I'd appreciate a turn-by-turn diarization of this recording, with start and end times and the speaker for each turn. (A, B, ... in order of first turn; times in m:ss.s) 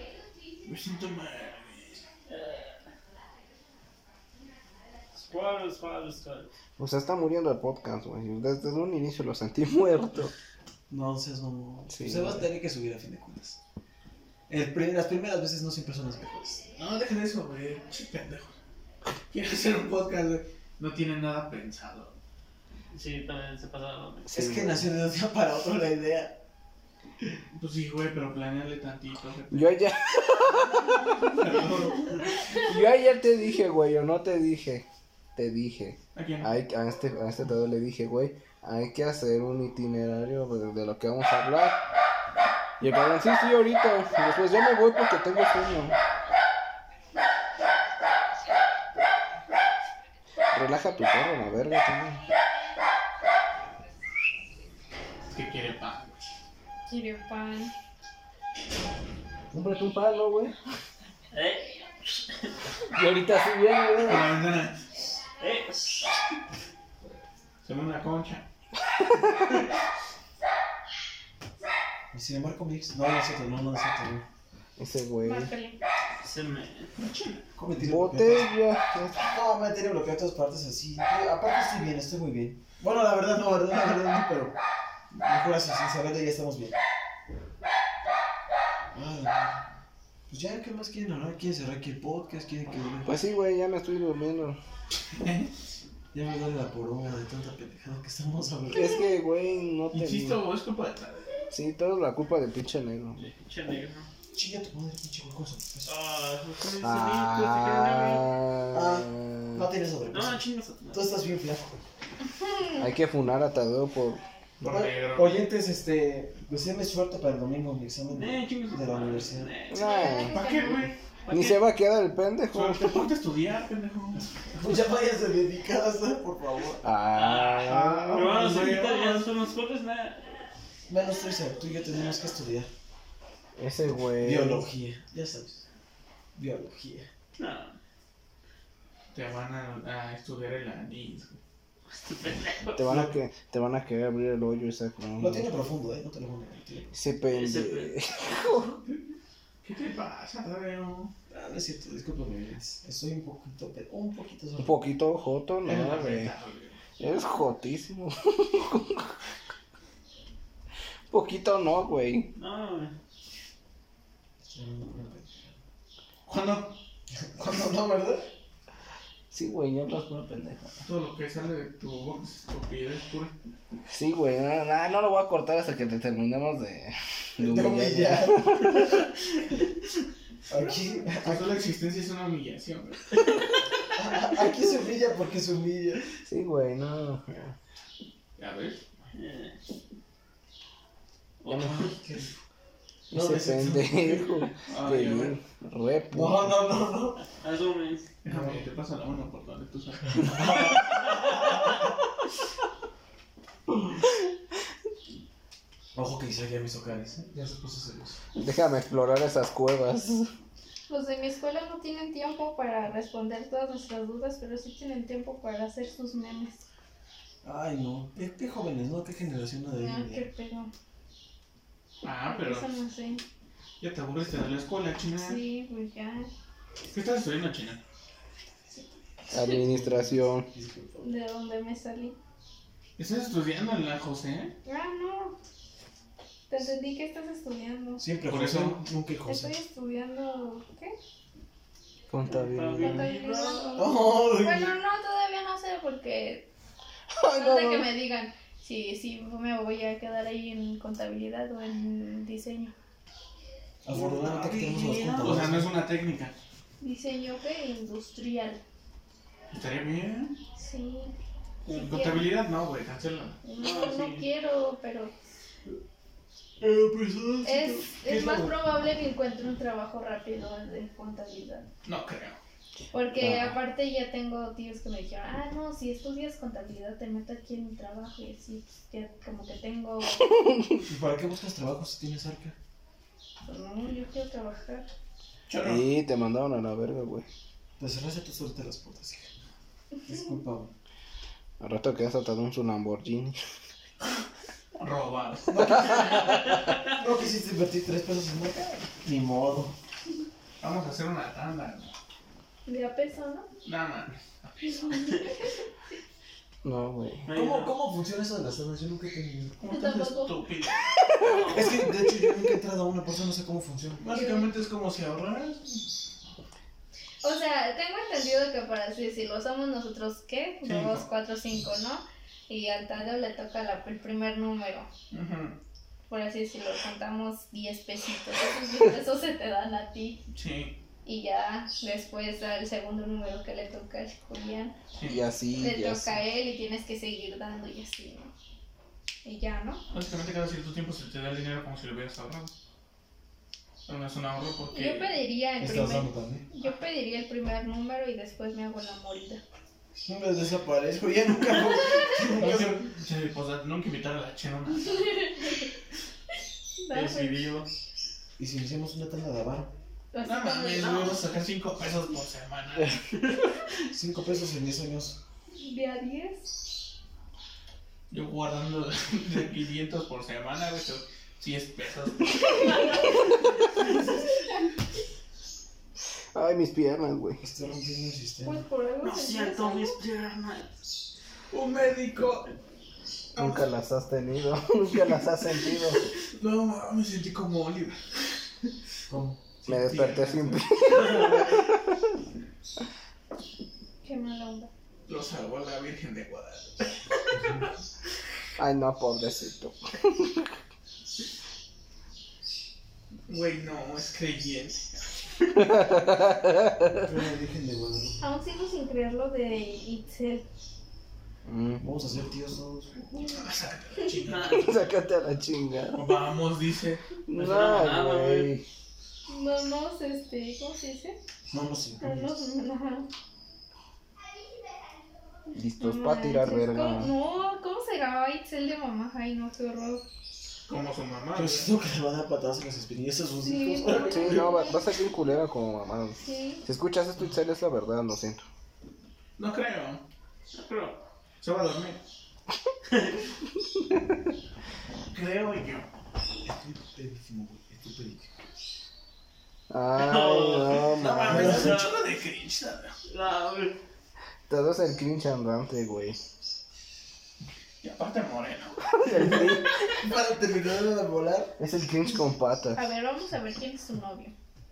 0:00.6-0:02.0 A
0:02.3-0:02.9 B
0:05.1-0:06.5 B
0:06.8-0:10.3 C
0:10.9-0:13.6 D
0:11.9-0:12.5 C
0:14.5-0:16.6 D
0:16.8-0:18.6 A
0:19.3-0:22.2 A
0:22.9-0:24.3 B
0:24.3-0:24.9 C
0:24.3-0:26.4 D
0:27.5-0:29.8 A
0:29.5-0:31.4 C
0:30.5-0:32.3 A
0:32.5-0:41.8 C
0:36.1-0:36.6 A
0:42.8-0:46.0 C
0:50.5-0:52.2 C
0:55.3-0:56.3 A
0:56.9-0:57.7 E
0:59.5-1:00.6 C
1:01.3-1:01.8 B
1:02.9-1:04.4 C
1:04.0-1:05.0 A
1:05.4-1:06.2 B
1:07.6-1:08.4 A
1:12.1-1:14.2 D
1:14.8-1:15.5 C
1:15.2-1:15.8 E
1:16.2-1:16.9 B
1:17.0-1:17.5 A
1:17.6-1:18.5 D
1:17.8-1:19.3 C
1:19.2-1:24.6 D
1:25.1-1:26.8 D
1:28.9-1:29.6 D
1:30.3-1:33.2 D
1:33.0-1:34.6 C
1:35.0-1:35.5 A
1:36.1-1:39.0 D
1:38.7-1:40.4 C
1:39.9-1:41.3 A
1:41.5-1:43.2 C
1:43.2-1:44.1 B
1:44.3-1:45.9 D
1:45.9-1:48.4 B
1:46.8-1:49.6 C
1:48.7-1:51.8 D
1:50.1-1:51.2 B
1:52.8-1:54.2 C
1:54.6-1:55.4 A
1:54.6-1:59.5 D
1:58.1-2:00.1 B
1:59.7-2:03.1 C
1:59.7-2:00.8 E
2:00.2-2:01.6 A
2:02.5-2:04.3 A
2:04.5-2:06.8 D
2:06.8-2:08.3 C
2:07.1-2:10.3 B
2:07.5-2:09.2 A
2:10.9-2:12.7 D
2:13.6-2:14.6 C
2:14.2-2:15.6 D
2:16.3-2:17.1 D
2:17.4-2:17.8 B
2:19.1-2:21.4 A
2:21.9-2:22.9 B
2:22.8-2:25.5 C
2:25.2-2:27.0 D
2:26.9-2:28.8 C
2:27.3-2:28.6 B
2:29.6-2:31.1 A
2:31.3-2:34.9 D
2:34.6-2:36.3 C
2:35.6-2:36.8 A
2:37.0-2:39.1 C
2:41.1-2:42.3 C
2:42.4-2:42.9 B
2:44.5-2:45.6 D
2:46.3-2:46.8 A
2:47.2-2:48.3 D
2:49.3-2:50.8 C
2:50.8-2:53.3 A
2:53.9-2:59.0 C
2:57.4-2:58.7 D
3:00.5-3:01.6 D
3:01.1-3:03.3 A
3:03.9-3:06.0 D
3:06.2-3:07.6 C
3:08.4-3:08.8 A
3:09.1-3:09.6 B
3:11.4-3:11.9 B
3:11.5-3:11.7 C
3:11.5-3:12.3 D
3:13.1-3:14.3 D
3:13.1-3:16.6 C
3:14.6-3:15.4 A
3:16.1-3:17.2 D
3:17.3-3:18.1 B
3:18.2-3:20.8 A
3:18.2-3:18.6 D
3:20.2-3:21.6 D
3:25.9-3:28.2 D
3:28.4-3:30.3 C
3:30.9-3:36.6 E
3:37.4-3:40.2 D
3:39.7-3:40.7 E
3:42.0-3:42.8 A
3:42.2-3:43.2 E
3:43.8-3:45.4 A
3:45.1-3:46.3 E
3:46.9-3:47.8 A
3:49.3-3:50.5 C
3:49.5-3:51.1 D
3:51.0-3:52.2 E
3:53.0-3:54.5 A
3:54.6-3:55.4 E
3:56.5-3:58.0 E
3:58.0-3:59.6 D
3:58.2-3:58.8 A
3:59.2-4:00.9 E
4:02.1-4:03.0 C
4:02.2-4:03.8 B
4:02.8-4:06.5 E
4:03.7-4:04.8 D
4:07.1-4:07.9 C
4:07.3-4:12.7 E
4:13.8-4:15.7 D
4:13.9-4:16.4 A
4:14.7-4:15.3 B
4:16.8-4:18.6 E
4:19.5-4:20.4 A
4:20.6-4:21.1 E
4:21.6-4:22.3 E
4:21.7-4:23.4 A
4:23.4-4:25.1 E
4:23.6-4:24.3 B
4:26.6-4:28.6 D
4:27.4-4:31.7 E
4:31.8-4:32.4 A
4:32.9-4:40.4 E
4:33.1-4:33.6 C
4:40.8-4:42.6 D
4:43.4-4:44.9 E
4:45.5-4:45.9 A
4:45.6-4:47.2 C
4:47.8-4:49.3 D
4:50.0-4:50.7 D
4:51.6-4:53.4 C
4:54.8-4:56.2 A
4:55.5-4:59.7 D
4:55.8-4:56.4 C
5:00.6-5:01.9 A
5:02.7-5:03.5 E
5:03.6-5:05.4 A
5:04.9-5:06.0 E
5:06.6-5:07.2 C
5:07.2-5:07.7 B
5:07.3-5:09.6 D
5:09.6-5:11.6 A
5:09.7-5:10.5 E
5:11.2-5:11.7 B
5:11.5-5:14.0 D
5:14.0-5:16.0 A
5:14.1-5:14.5 E
5:17.2-5:24.9 E
5:20.6-5:21.1 A
5:25.1-5:25.6 A
5:26.1-5:30.2 E
5:30.3-5:30.8 A
5:31.0-5:34.8 E
5:34.9-5:35.2 A
5:35.0-5:36.2 C
5:35.5-5:38.3 E
5:39.2-5:39.8 E
5:39.9-5:42.6 A
5:43.9-5:45.2 A
5:44.7-5:49.4 E
5:45.6-5:46.5 D
5:50.0-5:52.9 D
5:52.3-5:55.6 A
5:55.0-5:55.5 E
5:56.8-5:57.5 E
5:56.9-5:57.7 B
5:58.4-5:59.7 D
6:00.1-6:01.2 E
6:00.2-6:03.4 A
6:03.9-6:05.2 D
6:05.6-6:06.7 E
6:08.1-6:14.6 A
6:16.3-6:17.4 C
6:17.4-6:18.6 D
6:18.4-6:20.0 E
6:19.0-6:19.8 A
6:19.0-6:20.7 B
6:21.5-6:22.5 A
6:23.3-6:23.7 A
6:23.4-6:26.1 C
6:25.7-6:28.5 A
6:29.1-6:29.4 D
6:29.6-6:31.4 A
6:29.6-6:31.8 C
6:34.0-6:34.7 E
6:35.1-6:37.3 A
6:37.3-6:37.7 D
6:38.6-6:40.5 C
6:43.3-6:46.0 A
6:45.6-6:47.1 C
6:46.9-6:48.2 D
6:48.2-6:50.4 E
6:51.4-6:51.8 C
6:51.8-6:53.2 D
6:53.2-6:54.8 A
6:54.3-6:54.8 B
6:54.4-6:56.2 C
6:55.9-6:57.0 A
6:57.3-6:58.6 C
6:57.3-6:58.5 B
6:59.3-7:01.2 E
7:01.5-7:02.3 D
7:02.0-7:03.1 E
7:05.5-7:07.1 C
7:05.8-7:10.0 E
7:10.6-7:11.7 A
7:11.3-7:14.5 D
7:13.4-7:14.9 E
7:13.9-7:18.4 C
7:16.2-7:16.6 E
7:19.4-7:20.0 A
7:20.5-7:21.0 B
7:20.6-7:20.9 A
7:21.4-7:22.0 A
7:25.1-7:25.9 A
7:26.4-7:28.3 D
7:29.7-7:31.8 C
7:30.0-7:30.9 B
7:30.9-7:33.0 A
7:31.2-7:31.8 D
7:33.1-7:33.8 B
7:34.5-7:36.2 C
7:37.8-7:39.0 A
7:38.9-7:39.8 C
7:39.2-7:41.6 D
7:41.6-7:42.9 C
7:42.7-7:44.3 E